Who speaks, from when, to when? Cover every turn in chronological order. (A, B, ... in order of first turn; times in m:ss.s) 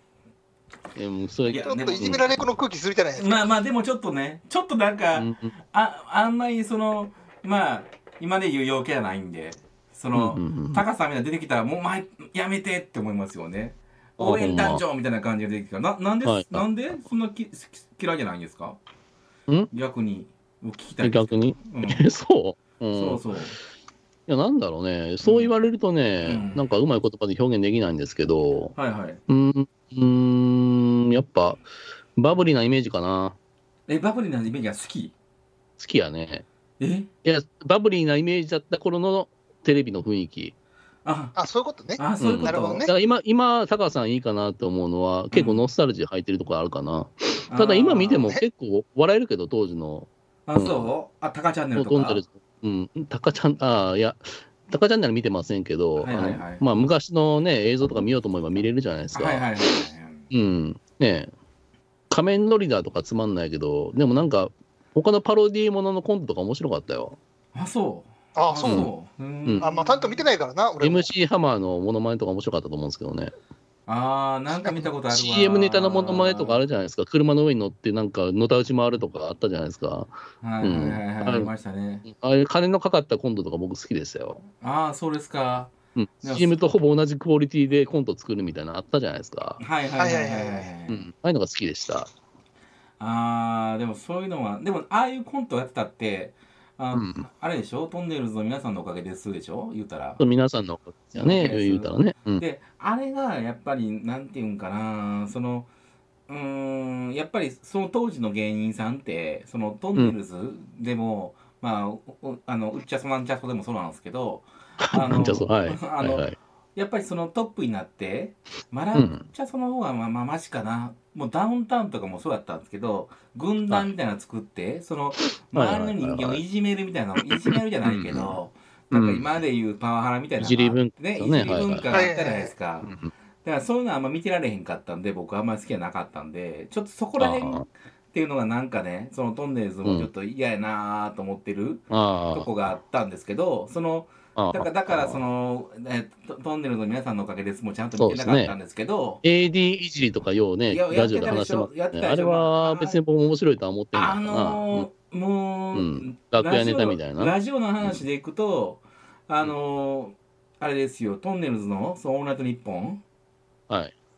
0:00.9-0:02.2 A
0:01.4-0:02.3 B
0:01.6-0:03.4 C
0:03.2-0:18.8 B
0:05.2-0:05.5 A
0:10.1-0:10.8 A
0:14.2-0:14.8 A
0:16.2-0:16.6 A
0:19.7-0:22.0 B
0:21.0-0:23.2 A
0:22.9-0:23.6 B
0:24.3-0:28.7 A
0:25.2-0:25.5 B
0:26.2-0:26.6 B
0:28.8-0:29.2 B
0:29.3-0:31.6 A
0:32.2-0:33.4 A
0:33.9-0:35.1 B
0:35.8-0:36.4 A
0:36.8-0:37.1 B
0:37.2-0:40.5 A
0:41.0-0:41.3 B
0:41.4-0:42.9 C
0:42.0-0:42.9 B
0:42.2-0:50.9 A
0:45.3-0:45.7 B
0:47.5-0:48.3 B
0:50.5-0:52.2 B
0:51.7-0:59.5 A
0:56.0-0:56.6 B
0:59.1-1:00.3 B
1:00.3-1:01.3 A
1:02.1-1:07.2 A
1:07.5-1:10.2 B
1:08.3-1:08.9 C
1:08.6-1:08.9 A
1:09.6-1:11.1 C
1:10.8-1:13.3 A
1:13.9-1:16.6 B
1:15.1-1:21.5 A
1:20.4-1:22.0 B
1:22.0-1:24.4 A
1:24.6-1:26.7 B
1:26.0-1:29.6 A
1:29.6-1:31.0 B
1:30.0-1:30.7 C
1:30.9-1:32.1 A
1:33.0-1:40.2 B
1:36.9-1:37.2 A
1:40.2-1:42.4 A
1:41.1-1:45.7 B
1:46.3-2:29.2 B
1:54.8-1:56.4 A
1:58.9-1:59.3 A
2:05.5-2:06.4 A
2:07.3-2:08.4 A
2:08.9-2:09.2 A
2:10.4-2:12.0 A
2:11.9-2:12.5 C
2:12.8-2:13.1 A
2:17.2-2:17.6 A
2:19.8-2:20.1 A
2:21.9-2:22.5 A
2:24.4-2:25.2 A
2:28.0-2:28.5 A
2:29.2-2:34.9 A
2:30.7-2:33.0 B
2:33.9-2:43.0 B
2:35.7-2:38.0 A
2:43.7-2:43.9 A